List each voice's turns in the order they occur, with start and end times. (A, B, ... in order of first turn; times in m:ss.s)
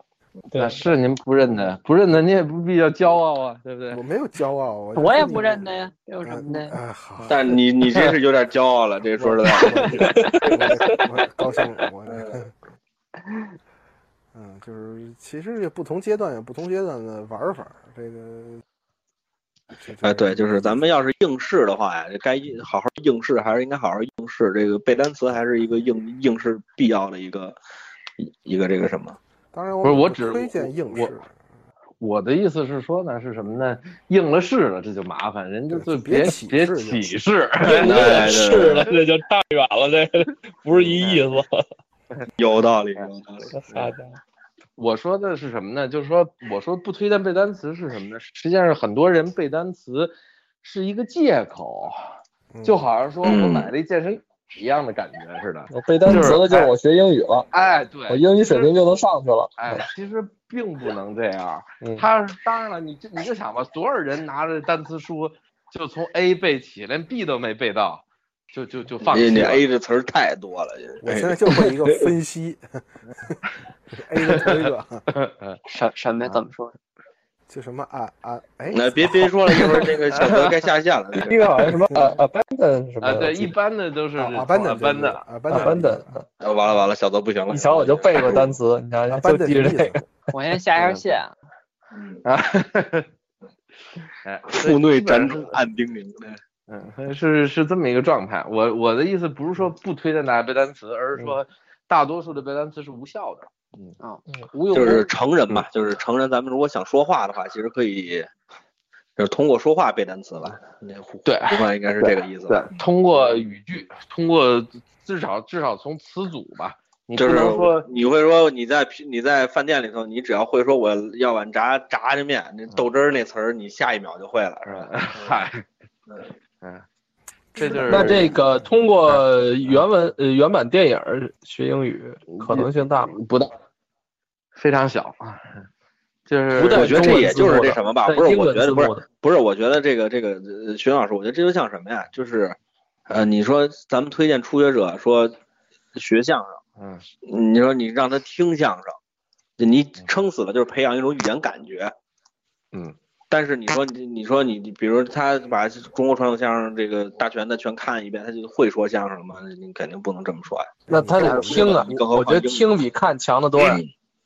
0:00.5-0:00.8 A
0:00.5-0:04.0 B
0:03.9-0:07.4 C
0:05.0-0:06.8 D
0:07.3-0:10.6 E
0:09.2-0:12.5 C
0:10.1-0:10.5 A
0:12.1-0:12.4 E
0:14.3-0:18.6 C
0:19.8-0:20.8 C
0:20.0-0:27.6 E
0:28.2-0:29.2 E
0:29.5-0:31.3 C
0:29.8-0:31.1 B
0:32.0-0:38.6 B
0:35.7-0:37.2 C
0:37.6-0:41.6 A
0:37.7-0:38.9 E
0:40.7-0:41.2 B
0:42.4-0:43.6 E
0:43.6-0:44.2 A
0:44.8-0:52.0 B
0:52.5-0:52.8 C
0:52.6-0:56.7 B
0:53.2-0:53.7 E
0:55.7-0:57.5 A
0:57.5-0:58.7 B
0:58.1-0:59.8 A
0:59.6-1:09.6 B
1:09.0-1:12.1 E
1:11.0-1:12.6 C
1:13.9-1:15.0 C
1:15.1-1:15.6 B
1:15.7-1:16.7 D
1:17.5-1:19.5 C
1:18.7-1:21.6 E
1:19.8-1:20.5 B
1:21.2-1:23.5 A
1:23.0-1:25.7 B
1:24.2-1:26.2 C
1:25.5-1:26.0 A
1:26.4-1:28.5 E
1:27.5-1:30.0 A
1:29.1-1:30.0 C
1:30.3-1:31.3 D
1:30.8-1:31.2 B
1:31.9-1:32.2 E
1:32.2-1:33.1 B
1:34.2-1:35.6 B
1:34.5-1:36.4 E
1:36.7-1:44.0 B
1:44.0-1:45.0 D
1:44.3-1:45.0 A
1:44.7-1:48.3 E
1:49.2-1:52.7 E
1:51.2-1:57.9 B
1:57.2-2:05.4 E
2:04.6-2:05.6 B
2:07.5-2:08.4 C
2:07.6-2:08.4 B
2:07.7-2:13.2 A
2:09.1-2:09.8 B
2:12.3-2:13.5 B
2:14.6-2:15.6 B
2:16.3-2:17.4 B
2:16.6-2:19.0 A
2:16.7-2:22.6 E
2:23.1-2:25.3 E
2:25.9-2:26.6 E
2:26.8-2:27.0 B
2:27.2-2:29.0 E
2:29.6-2:31.9 E
2:33.3-2:42.7 E
2:40.9-2:41.9 C
2:41.0-2:43.8 A
2:41.0-2:41.6 B
2:43.5-2:43.9 E